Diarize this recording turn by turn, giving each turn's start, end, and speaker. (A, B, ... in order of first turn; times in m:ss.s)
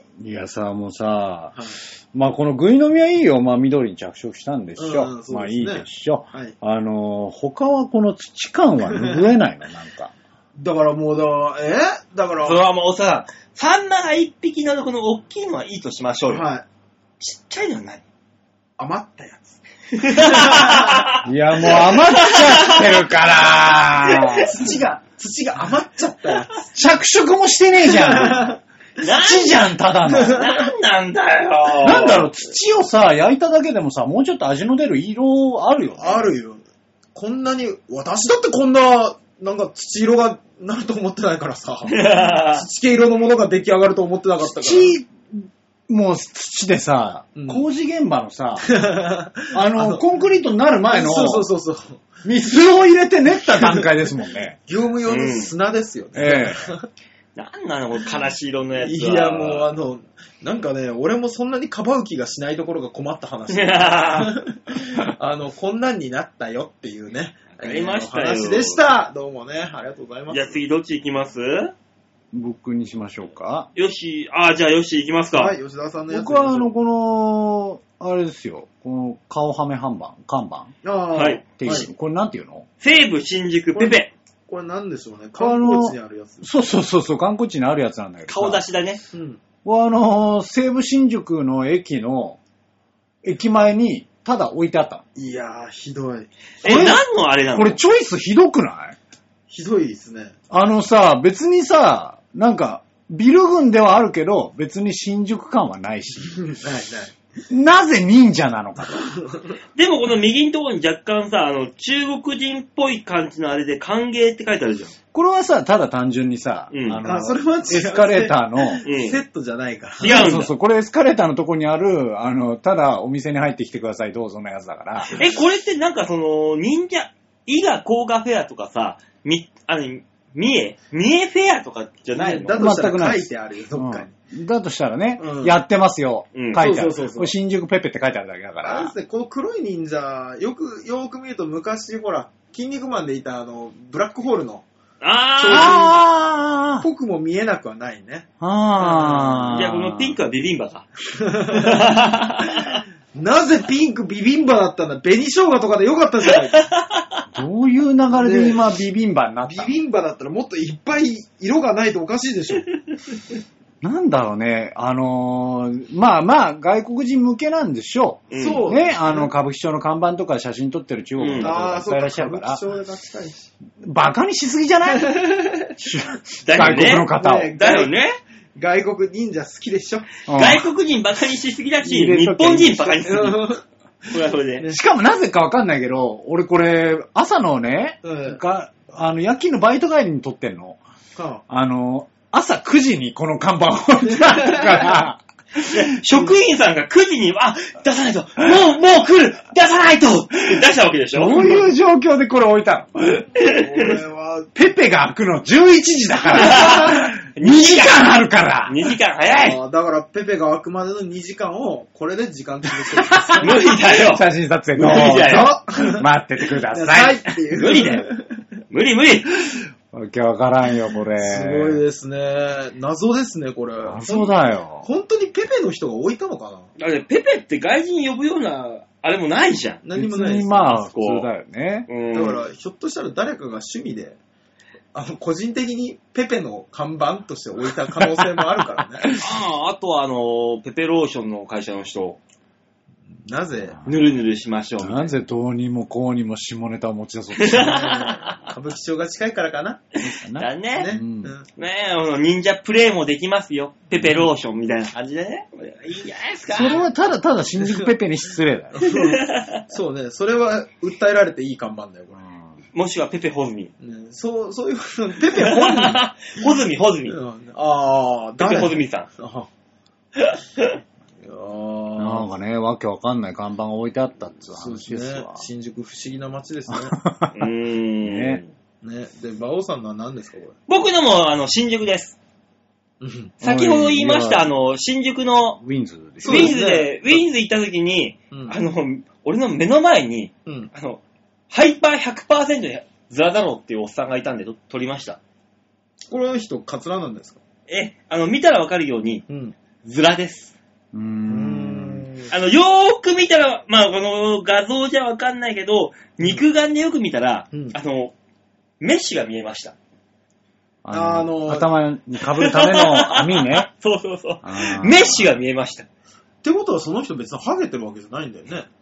0:00.2-0:01.6 A
0:02.1-0:10.1 A
0:04.8-0:06.6 B
0:08.9-0:09.2 B
0:10.6-0:12.6 B
0:12.4-0:16.4 C
0:16.3-0:16.6 B
0:17.2-0:18.0 C
0:18.8-0:19.6 B
0:19.9-0:23.0 C
0:20.1-0:21.0 B
0:21.2-0:24.7 A
0:24.0-0:24.4 C
0:24.3-0:26.7 B
0:26.7-0:30.4 A
0:27.8-0:28.6 B
0:29.0-0:29.7 C
0:30.1-0:30.7 B
0:30.2-0:32.3 C
0:31.8-0:36.2 A
0:36.0-0:36.6 B
0:37.1-0:45.0 B
0:41.9-0:42.6 C
0:44.4-0:48.7 A
0:47.3-0:47.6 B
0:48.6-0:50.0 B
0:49.5-0:51.5 A
0:50.9-0:52.2 B
0:52.2-0:54.6 A
0:53.4-0:53.9 B
0:54.7-0:56.9 B
0:55.0-0:55.5 C
0:56.1-0:56.7 A
0:57.3-0:59.7 C
0:58.8-1:10.6 B
1:03.5-1:04.4 C
1:07.5-1:08.8 C
1:10.3-1:11.7 C
1:12.3-1:13.7 A
1:13.7-1:15.5 C
1:15.3-1:16.7 B
1:16.1-1:20.7 A
1:20.8-1:21.9 B
1:21.1-1:21.8 C
1:21.6-1:22.6 A
1:22.8-1:24.1 C
1:23.7-1:26.4 B
1:25.4-1:28.6 A
1:28.3-1:29.0 C
1:29.1-1:29.4 B
1:29.6-1:32.4 A
1:33.2-1:35.0 A
1:35.2-1:36.3 B
1:36.6-1:37.8 C
1:36.6-1:37.0 A
1:37.5-1:39.0 A
1:39.5-1:40.3 B
1:40.5-1:46.4 A
1:46.4-1:47.1 B
1:47.5-1:49.1 A
1:49.1-1:49.5 B
1:49.8-1:54.9 C
1:55.1-1:58.8 A
1:56.7-1:57.0 C
1:57.0-2:00.3 B
1:58.8-1:59.2 C
2:00.0-2:00.5 C
2:00.0-2:05.2 A
2:05.2-2:12.6 C
2:12.1-2:14.1 B
2:12.6-2:18.9 A
2:15.2-2:15.5 B
2:16.3-2:16.6 C
2:16.6-2:17.3 B
2:18.6-2:24.6 B
2:25.0-2:25.9 C
2:25.4-2:26.0 B
2:25.5-2:26.8 A
2:26.8-2:28.3 B
2:28.4-2:30.2 A
2:28.8-2:29.5 B
2:29.5-2:30.8 C
2:31.1-2:31.9 B
2:31.5-2:32.8 C
2:32.6-2:36.6 B
2:36.5-2:37.2 C
2:37.3-2:39.7 A
2:38.1-2:38.7 B
2:39.4-2:42.7 B
2:43.8-2:52.6 A
2:48.3-2:48.7 C
2:48.3-2:49.3 B
2:51.2-2:51.5 C
2:51.4-2:53.5 B
2:53.8-2:57.5 A
2:56.4-2:58.2 C
2:56.9-2:57.9 B
2:58.5-3:00.1 B
3:00.3-3:00.7 A
3:00.3-3:03.5 C
3:01.8-3:03.1 A
3:03.0-3:03.6 B
3:04.1-3:04.6 C
3:04.7-3:10.8 A
3:08.0-3:08.4 B
3:11.1-3:11.4 B
3:11.5-3:15.8 A
3:14.1-3:15.0 B
3:15.6-3:21.6 C
3:21.1-3:23.3 A
3:23.4-3:23.9 C
3:23.4-3:24.5 B
3:24.5-3:29.0 A
3:26.3-3:28.1 C
3:26.4-3:26.9 B
3:28.7-3:29.6 C
3:29.3-3:33.8 B
3:32.9-3:37.2 A
3:33.4-3:34.2 C
3:34.8-3:35.5 C
3:34.8-3:36.0 B
3:36.7-3:38.2 B
3:37.5-3:38.1 C
3:38.7-3:39.3 C
3:39.9-3:41.8 A
3:41.2-3:46.7 B
3:43.8-3:44.9 A
3:46.8-3:49.8 C
3:49.8-3:50.8 B
3:50.0-3:51.9 A
3:50.7-3:51.3 C
3:51.9-3:52.4 C
3:52.1-3:54.2 B
3:54.9-3:59.1 B
3:59.2-4:02.2 C
4:03.2-4:03.8 B
4:03.8-4:05.1 C
4:04.8-4:07.9 A
4:07.4-4:08.5 C
4:07.5-4:09.8 B
4:10.0-4:11.3 A
4:10.4-4:10.9 C
4:10.8-4:11.5 B
4:11.6-4:16.8 C
4:16.5-4:18.7 A
4:17.6-4:17.9 B
4:18.7-4:22.2 B
4:18.9-4:19.6 C
4:22.7-4:23.7 C
4:23.8-4:26.6 B
4:25.3-4:27.2 C
4:27.1-4:29.5 B
4:28.4-4:29.1 C
4:30.2-4:30.8 C
4:31.2-4:32.3 B
4:32.0-4:35.4 A
4:34.5-4:37.0 B
4:36.7-4:37.5 A
4:37.3-4:38.5 C
4:38.0-4:38.4 A
4:38.8-4:40.6 B
4:40.7-4:42.2 C
4:43.0-4:43.3 B
4:43.4-4:44.5 A
4:43.4-4:45.6 C
4:45.6-4:46.6 A
4:46.2-4:47.2 B
4:46.2-4:55.2 C
4:48.3-4:48.6 B
4:50.4-4:50.7 B
4:56.1-4:57.4 B
4:57.7-4:59.2 C
4:59.3-4:59.5 B
4:59.8-5:00.5 C
5:00.9-5:02.1 A
5:01.3-5:02.3 B
5:02.3-5:08.1 C
5:08.8-5:09.7 C
5:10.8-5:13.7 A
5:10.9-5:11.7 B
5:12.3-5:15.9 C
5:14.4-5:15.4 A
5:16.4-5:18.7 B